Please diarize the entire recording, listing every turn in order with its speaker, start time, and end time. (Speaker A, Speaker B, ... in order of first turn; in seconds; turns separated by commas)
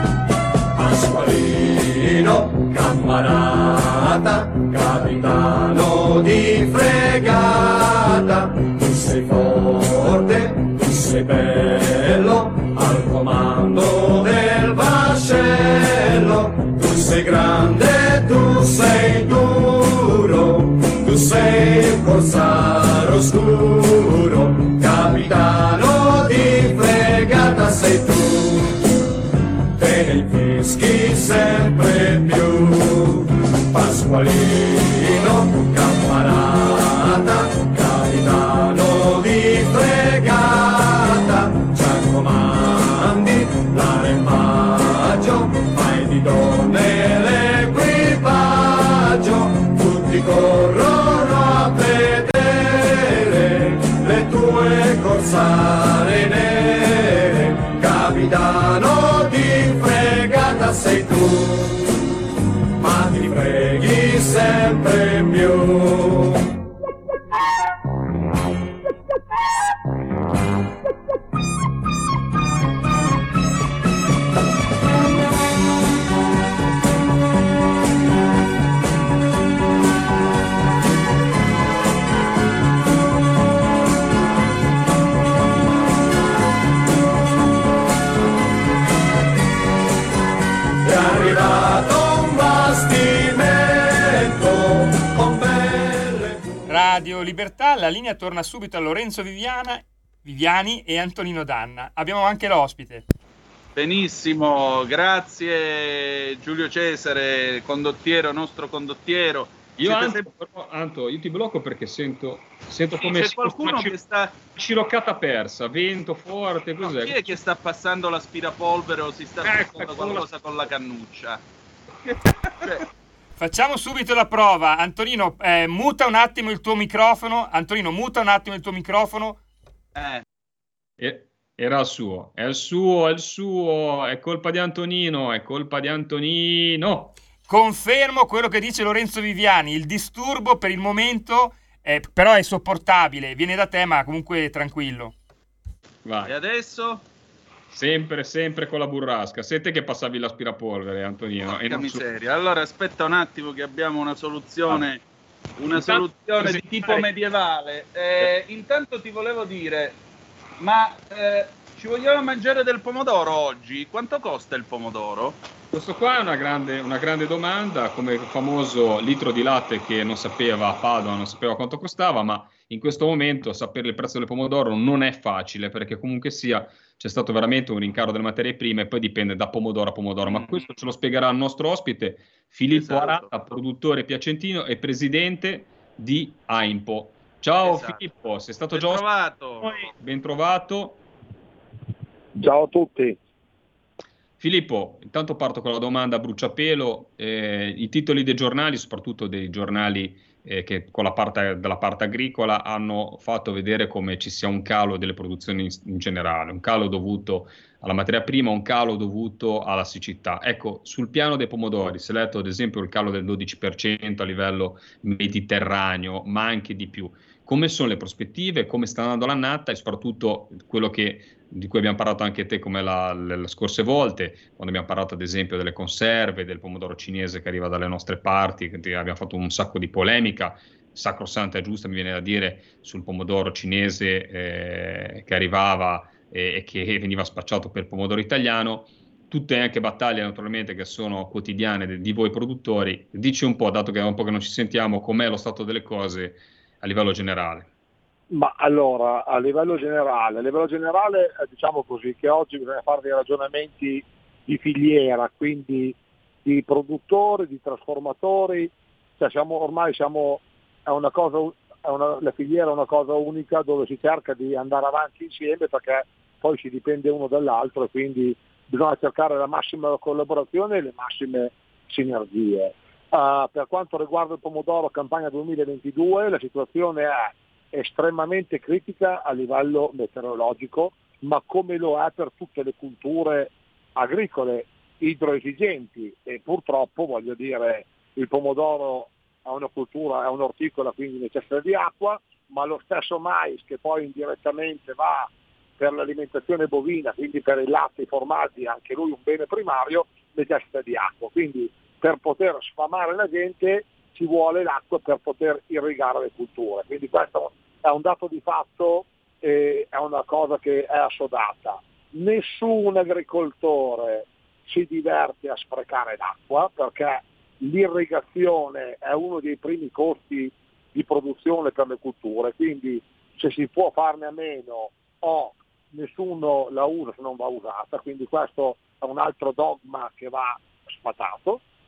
Speaker A: 0.7-28.8, Speaker A: 29.8-61.9, Speaker A: 62.8-66.4, Speaker A: 90.8-96.5, Speaker B: 96.7-103.0, Speaker C: 103.8-110.3, Speaker D: 109.8-114.0, Speaker C: 113.0-114.4, Speaker D: 114.5-117.3, Speaker C: 116.8-121.4, Speaker D: 119.4-120.3, Speaker D: 122.0-122.8, Speaker B: 123.4-129.4, Speaker C: 129.9-130.2, Speaker D: 131.0-137.2, Speaker B: 137.5-145.1, Speaker D: 146.1-146.3, Speaker C: 146.2-147.1, Speaker D: 147.7-152.0, Speaker C: 151.5-155.0, Speaker C: 155.6-160.0, Speaker D: 155.8-157.1, Speaker C: 160.6-165.4, Speaker D: 165.7-189.1, Speaker C: 180.3-180.8, Speaker C: 182.7-183.3, Speaker C: 187.6-188.0, Speaker C: 188.7-189.9, Speaker D: 189.6-191.0, Speaker E: 192.4-193.2, Speaker D: 194.4-247.7, Speaker E: 248.3-331.6